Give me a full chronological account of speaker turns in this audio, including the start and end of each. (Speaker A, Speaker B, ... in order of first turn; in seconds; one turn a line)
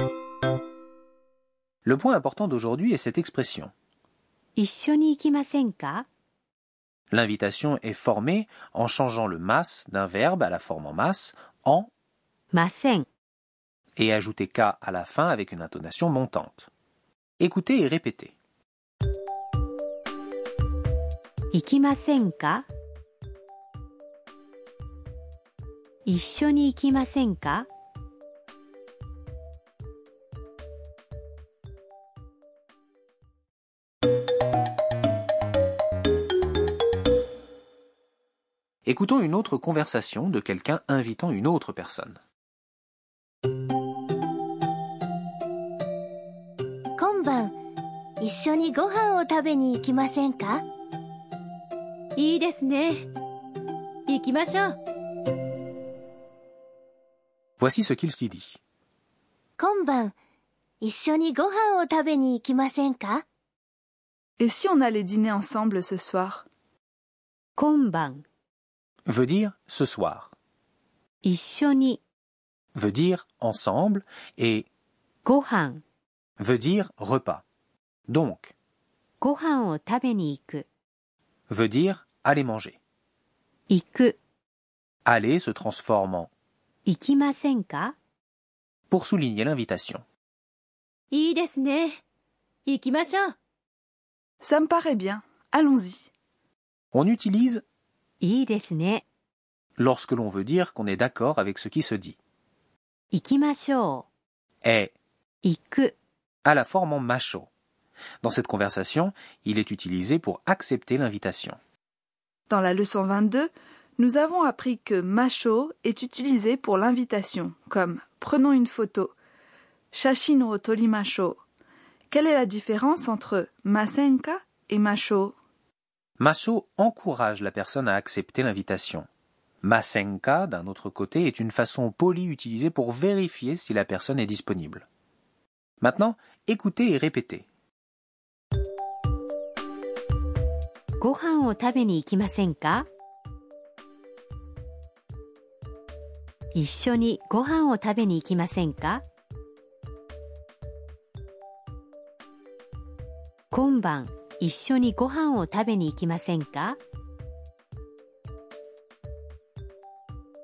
Speaker A: 1.8-3.7
Speaker B: 4.5-6.0
Speaker A: 7.1-11.9
Speaker B: 12.5-13.1
Speaker A: 14.0-16.7
Speaker A: 17.4-18.3
Speaker B: 21.5-22.7
Speaker B: 26.1-27.7
Speaker A: 38.9-42.2
Speaker C: 47.0-47.5
Speaker C: 48.2-50.6
Speaker D: 52.1-53.0
Speaker D: 54.1-54.8
Speaker A: 57.6-58.6
Speaker C: 59.6-60.1
Speaker C: 60.8-63.2
Speaker E: 64.4-66.4
Speaker B: 67.6-68.2
Speaker A: 69.0-70.3
Speaker B: 71.2-72.0
Speaker A: 72.7-74.7
Speaker B: 75.2-75.8
Speaker A: 76.4-77.4
Speaker A: 78.1-78.5
Speaker B: 79.2-80.7
Speaker A: 81.5-82.8
Speaker B: 83.7-84.2
Speaker A: 85.0-86.3
Speaker B: 86.8-87.9
Speaker A: 88.9-90.0
Speaker D: 91.1-92.0
Speaker D: 92.7-93.3
Speaker E: 94.4-96.1
Speaker A: 96.9-97.6
Speaker B: 98.2-99.0
Speaker A: 99.8-102.2
Speaker B: 103.1-104.1
Speaker A: 104.6-104.9
Speaker B: 105.4-105.9
Speaker A: 106.4-107.5
Speaker A: 108.2-111.6
Speaker E: 112.5-119.1
Speaker E: 119.9-121.4
Speaker E: 122.1-125.3
Speaker A: 126.2-129.1
Speaker A: 129.6-134.9
Speaker A: 135.8-137.4
Speaker B: 141.0-142.9
Speaker B: 146.5-149.0
Speaker B: 153.5-156.8